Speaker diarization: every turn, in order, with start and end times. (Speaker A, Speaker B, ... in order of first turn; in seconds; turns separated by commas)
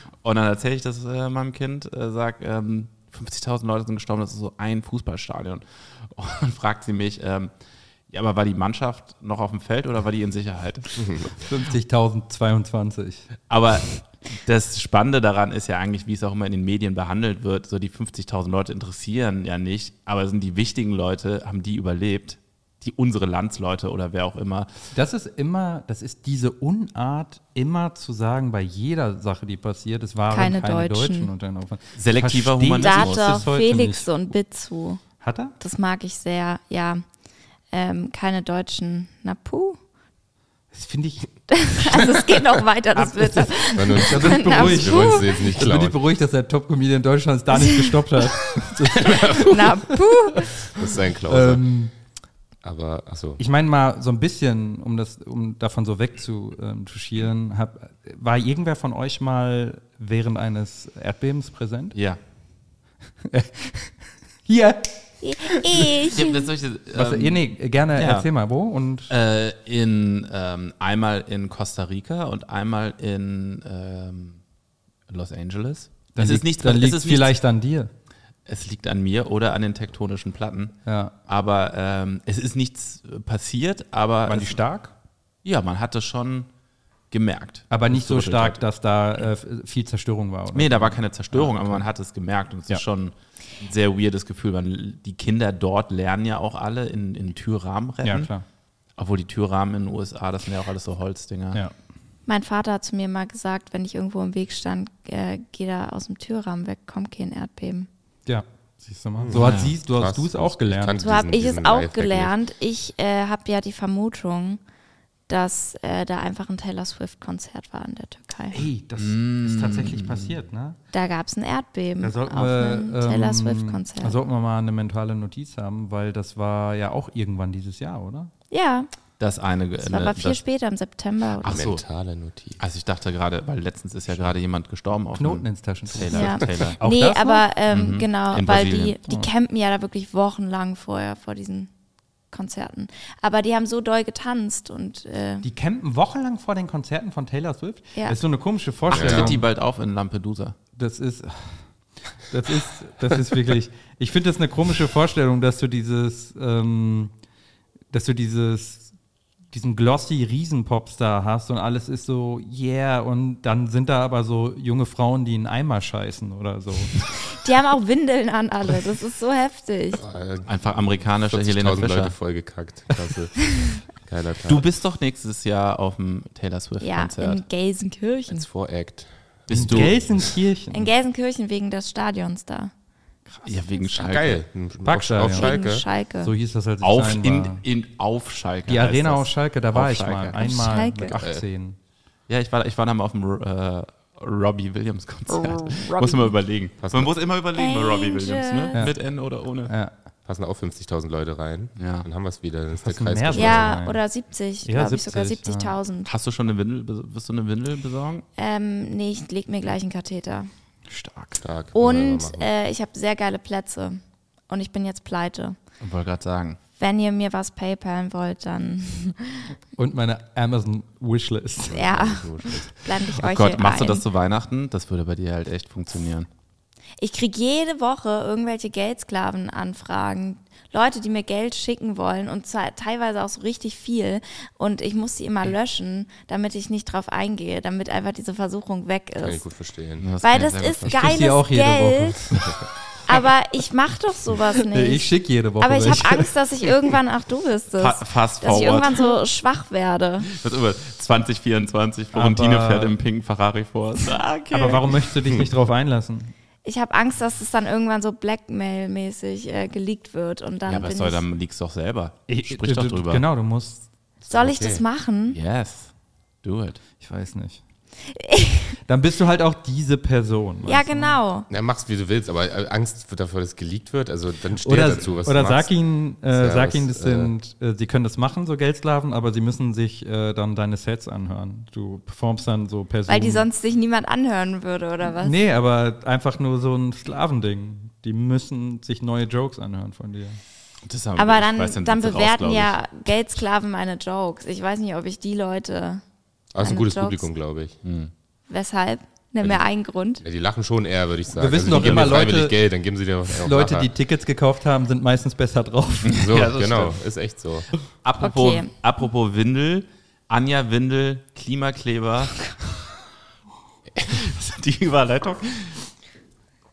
Speaker A: 0.2-7.5, Speaker A: 8.1-11.3, Speaker B: 11.4-13.2, Speaker A: 13.5-24.7, Speaker B: 24.9-34.1, Speaker C: 30.3-31.3, Speaker A: 31.9-33.4, Speaker C: 32.8-35.0, Speaker B: 35.2-35.5, Speaker C: 35.6-37.0, Speaker C: 37.7-39.8, Speaker B: 40.7-41.5, Speaker C: 41.5-45.4, Speaker B: 43.0-50.7, Speaker D: 43.7-46.0, Speaker C: 47.6-47.9, Speaker C: 49.1-50.5, Speaker D: 50.7-51.6, Speaker B: 51.2-51.9, Speaker D: 52.6-53.4, Speaker B: 53.4-62.0, Speaker A: 61.9-62.2, Speaker B: 63.2-66.1, Speaker C: 65.2-66.5, Speaker A: 66.1-68.3, Speaker B: 66.9-69.1, Speaker A: 69.1-74.4, Speaker A: 75.1-77.4, Speaker B: 76.1-77.9, Speaker A: 78.5-80.8, Speaker B: 80.8-81.1, Speaker A: 81.3-84.6, Speaker B: 84.2-84.9, Speaker A: 85.4-86.5, Speaker A: 87.1-88.6, Speaker B: 87.7-91.8, Speaker A: 90.5-98.3, Speaker B: 98.0-98.4, Speaker A: 99.0-101.6, Speaker C: 102.3-107.9, Speaker B: 108.2-111.0, Speaker D: 109.2-112.3, Speaker A: 109.3-109.7, Speaker C: 111.0-114.6, Speaker C: 115.3-118.6, Speaker B: 118.5-120.8, Speaker A: 119.0-120.4, Speaker C: 120.9-124.2, Speaker B: 122.0-128.3, Speaker C: 128.5-128.9, Speaker A: 129.2-130.4, Speaker C: 129.8-131.6, Speaker A: 131.4-131.8, Speaker D: 131.4-132.6, Speaker A: 132.6-136.8, Speaker B: 135.2-137.4, Speaker C: 136.1-141.7, Speaker A: 137.7-139.0, Speaker C: 142.3-145.4, Speaker B: 145.4-149.4, Speaker A: 148.9-150.6, Speaker D: 148.9-149.3, Speaker B: 150.8-151.5, Speaker B: 152.2-157.1, Speaker B: 157.9-158.9, Speaker B: 159.5-167.0, Speaker C: 167.3-170.0, Speaker D: 170.0-174.6, Speaker A: 170.4-172.1, Speaker A: 174.4-177.4, Speaker C: 176.8-178.4, Speaker D: 178.3-180.2, Speaker A: 179.5-180.0, Speaker B: 179.5-180.9, Speaker C: 180.7-182.7, Speaker B: 183.3-183.5, Speaker A: 183.4-184.4, Speaker D: 183.9-185.8, Speaker B: 184.8-185.5, Speaker C: 185.2-186.3, Speaker B: 186.2-187.6, Speaker A: 186.8-190.5, Speaker B: 188.7-191.8, Speaker C: 190.3-191.2, Speaker D: 191.2-191.4, Speaker A: 192.3-199.7, Speaker C: 195.3-196.3, Speaker D: 196.8-197.1, Speaker C: 197.5-198.8, Speaker B: 199.7-199.9, Speaker D: 200.2-203.8, Speaker A: 201.8-202.1, Speaker B: 202.8-204.0, Speaker C: 203.3-206.1, Speaker B: 204.6-205.8, Speaker A: 206.0-208.2, Speaker C: 208.4-210.5, Speaker B: 210.9-211.4, Speaker D: 211.4-212.5, Speaker C: 211.7-215.6, Speaker A: 215.8-216.6, Speaker C: 216.8-219.4, Speaker B: 219.8-221.8, Speaker C: 221.7-224.0, Speaker D: 221.8-222.6, Speaker A: 223.1-226.3, Speaker C: 227.0-239.4, Speaker D: 239.2-240.1, Speaker A: 240.0-240.9, Speaker C: 240.2-242.3, Speaker B: 240.8-242.5, Speaker C: 243.1-250.3, Speaker B: 244.7-246.3, Speaker A: 247.8-249.1, Speaker A: 250.3-255.0, Speaker B: 252.1-253.0, Speaker B: 254.5-256.3, Speaker C: 256.6-261.2, Speaker A: 260.7-263.2, Speaker B: 262.3-263.8, Speaker D: 264.2-264.8, Speaker C: 264.3-265.4, Speaker A: 265.3-265.9, Speaker A: 266.4-266.8, Speaker B: 267.0-267.6, Speaker C: 268.1-268.8, Speaker B: 268.9-271.2, Speaker C: 270.6-271.5, Speaker D: 271.5-275.7, Speaker B: 274.6-283.4, Speaker D: 276.3-277.3, Speaker C: 283.1-285.3, Speaker B: 285.0-290.4, Speaker A: 290.8-292.8, Speaker C: 291.1-296.0, Speaker D: 296.5-297.8, Speaker C: 296.6-297.3, Speaker A: 297.8-298.1, Speaker C: 298.5-300.2, Speaker D: 300.2-303.9, Speaker B: 301.3-302.6, Speaker A: 301.7-302.1, Speaker B: 303.3-306.4, Speaker A: 306.1-307.0, Speaker D: 306.1-307.7, Speaker A: 308.0-312.5, Speaker C: 308.2-308.7, Speaker A: 313.9-315.9